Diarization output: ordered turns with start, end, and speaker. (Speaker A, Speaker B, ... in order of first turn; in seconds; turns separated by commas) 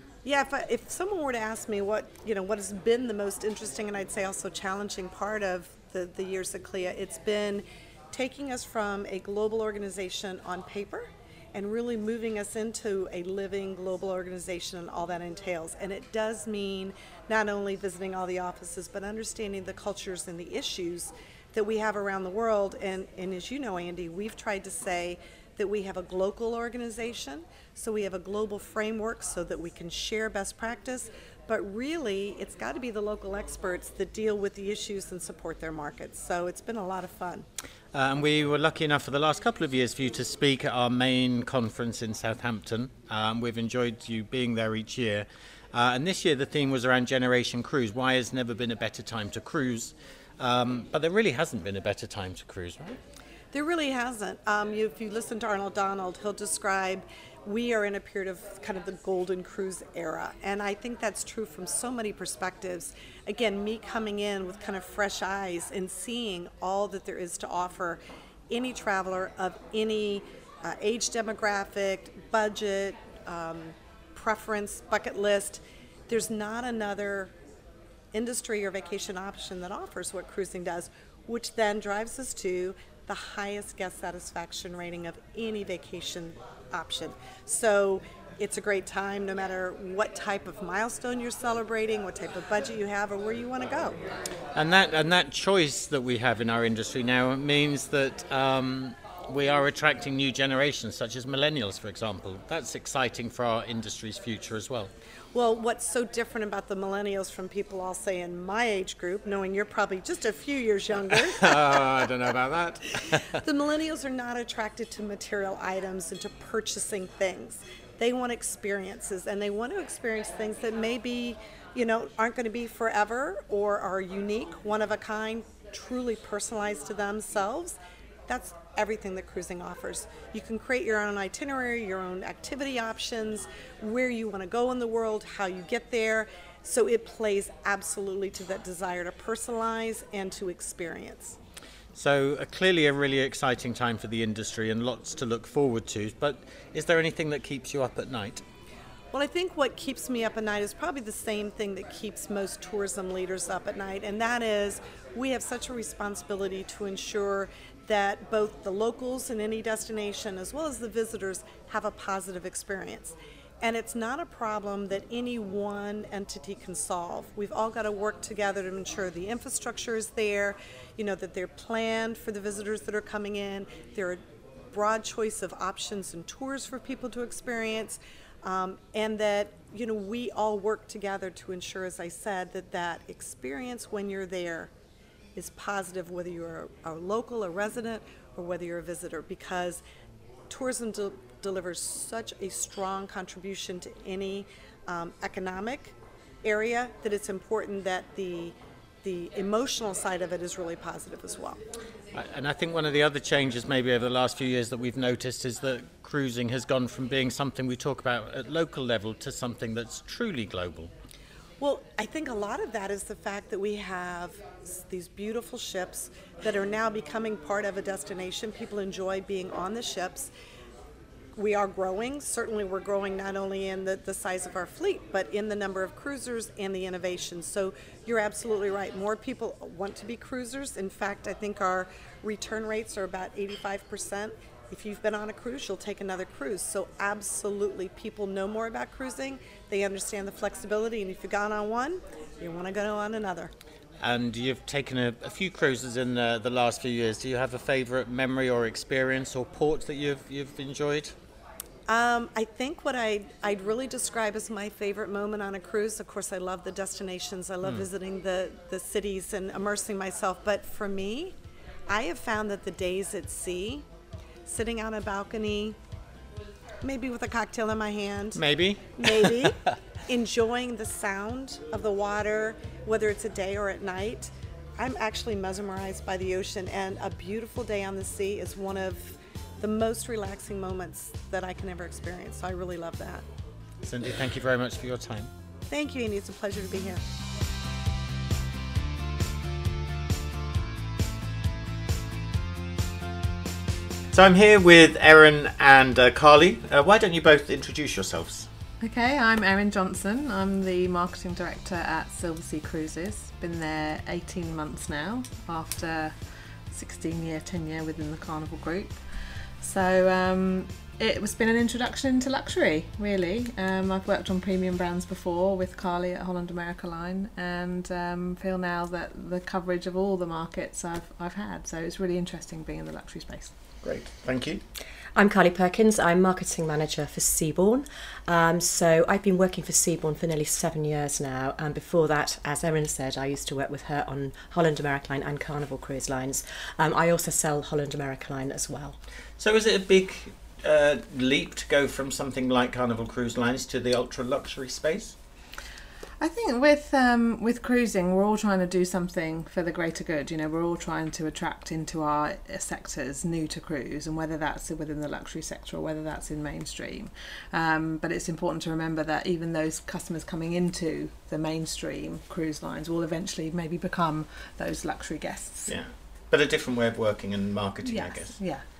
Speaker A: 0.2-37.5, Speaker B: 37.9-53.0, Speaker A: 53.5-77.3, Speaker A: 78.1-94.0, Speaker B: 94.5-104.9, Speaker A: 105.3-111.8, Speaker B: 111.1-113.4, Speaker A: 113.3-141.3, Speaker B: 141.9-148.4, Speaker A: 149.1-184.7, Speaker A: 185.3-189.8, Speaker A: 190.5-201.6, Speaker B: 202.1-210.9, Speaker A: 211.6-220.3, Speaker A: 221.3-243.5, Speaker B: 244.0-251.2, Speaker A: 251.9-261.4, Speaker B: 257.6-257.9, Speaker A: 261.9-263.8, Speaker A: 264.4-265.8, Speaker A: 266.8-268.4, Speaker B: 268.3-269.7, Speaker A: 269.0-283.2, Speaker B: 283.8-285.3, Speaker A: 285.7-287.0, Speaker B: 294.1-298.5, Speaker C: 298.8-306.1, Speaker C: 306.7-309.0, Speaker C: 309.6-323.5, Speaker B: 323.8-324.6, Speaker D: 325.1-339.0, Speaker B: 339.4-345.1, Speaker C: 346.2-365.7, Speaker B: 365.7-368.4, Speaker C: 367.8-368.6